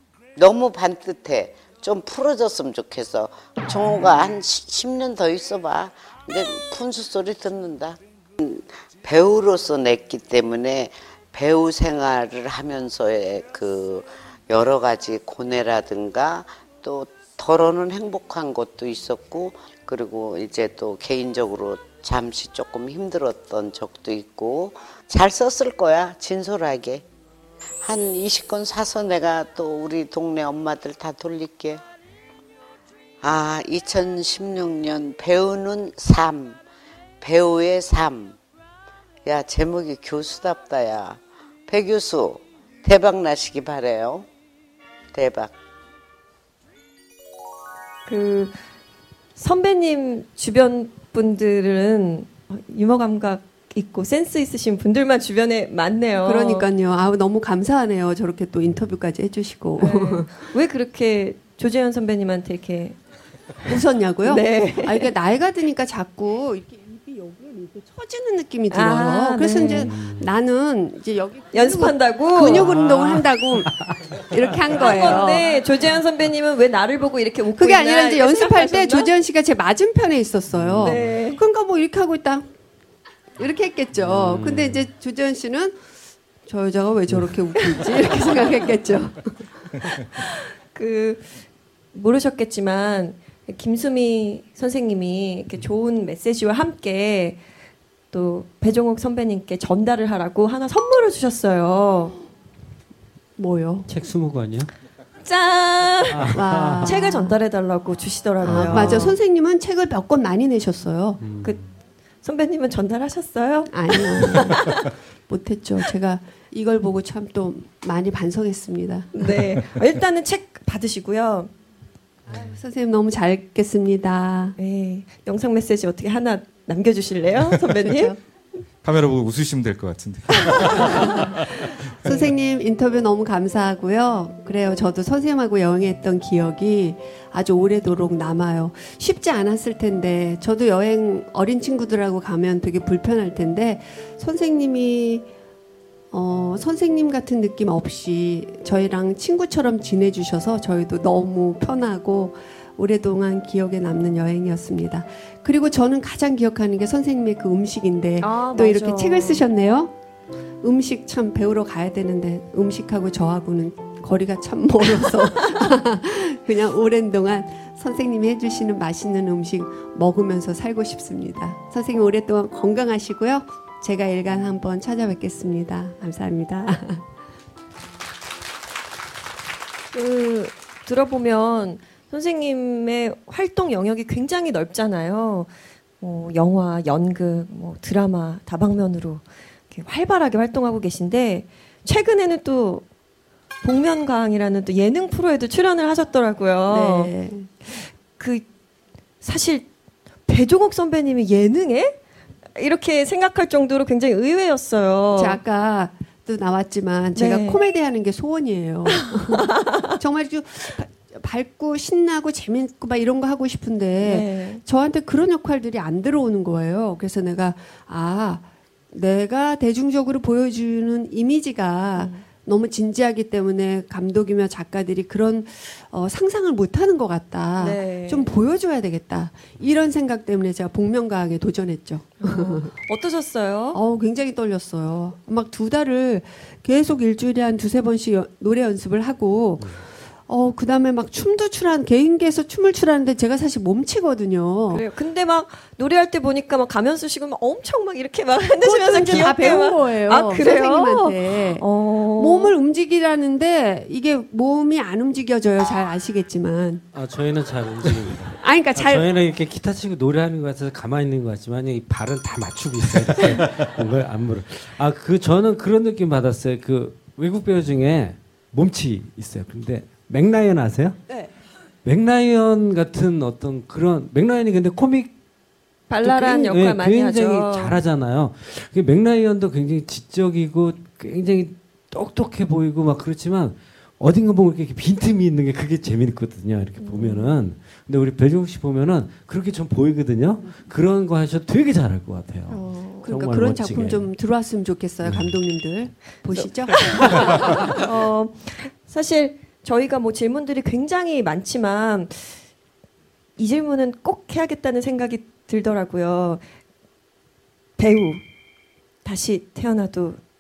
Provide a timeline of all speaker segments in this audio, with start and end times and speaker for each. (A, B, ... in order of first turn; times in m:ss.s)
0:00.4-0:27.0 A
0:27.8-0:31.8 A
0:33.2-0:36.6 A
0:37.2-0:38.4 A
0:39.3-0:44.3 A
0:45.1-0:45.5 A
0:48.1-0:48.6 B
0:49.4-0:56.7 B
0:56.2-1:00.5 C
0:59.8-1:03.0 B
1:03.7-1:15.6 C
1:04.2-1:05.1 B
1:08.7-1:09.9 B
1:09.7-1:10.3 D
1:11.5-1:12.7 B
1:12.6-1:13.2 D
1:14.7-1:19.1 B
1:17.6-1:22.5 C
1:20.5-1:21.2 D
1:20.8-1:21.4 B
1:23.4-1:25.8 C
1:24.0-1:24.9 D
1:26.5-1:30.0 C
1:27.6-1:28.4 B
1:30.2-1:37.4 B
1:38.1-1:42.2 B
1:43.4-1:43.9 C
1:43.9-1:44.7 D
1:45.2-1:49.2 B
1:46.1-1:47.0 D
1:46.3-1:47.4 C
1:48.4-1:49.1 D
1:48.4-1:51.2 C
1:51.2-1:51.8 D
1:52.2-1:54.6 B
1:53.7-1:59.2 C
1:59.1-2:01.5 B
2:02.3-2:04.6 C
2:04.6-2:08.1 B
2:07.8-2:08.2 C
2:08.8-2:12.3 E
2:10.8-2:11.2 C
2:12.0-2:25.3 C
2:26.1-2:39.9 C
2:38.2-2:39.4 B
2:40.6-2:57.0 C
2:59.9-3:12.9 B
3:13.6-3:17.1 B
3:16.7-3:17.5 C
3:17.6-3:18.5 B
3:19.2-3:19.7 B
3:20.3-3:22.0 B
3:22.6-3:25.4 B
3:25.2-3:52.7 C
3:27.2-3:27.6 B
3:34.0-3:34.6 B
3:42.0-3:42.2 B
3:47.6-3:48.3 B
3:52.2-3:53.8 B
3:53.7-4:04.8 C
4:04.7-4:12.6 B
4:08.6-4:16.9 C
4:16.9-4:31.0 D
4:18.4-4:19.1 C
4:31.8-4:35.2 D
4:35.9-4:37.8 B
4:36.0-4:54.1 D
4:46.8-4:47.4 B
4:52.5-4:53.1 B
4:53.0-4:57.7 C
4:55.0-4:55.4 D
4:56.3-5:02.4 B
5:03.4-5:06.4 B
5:07.8-5:08.2 B
5:09.0-5:10.2 B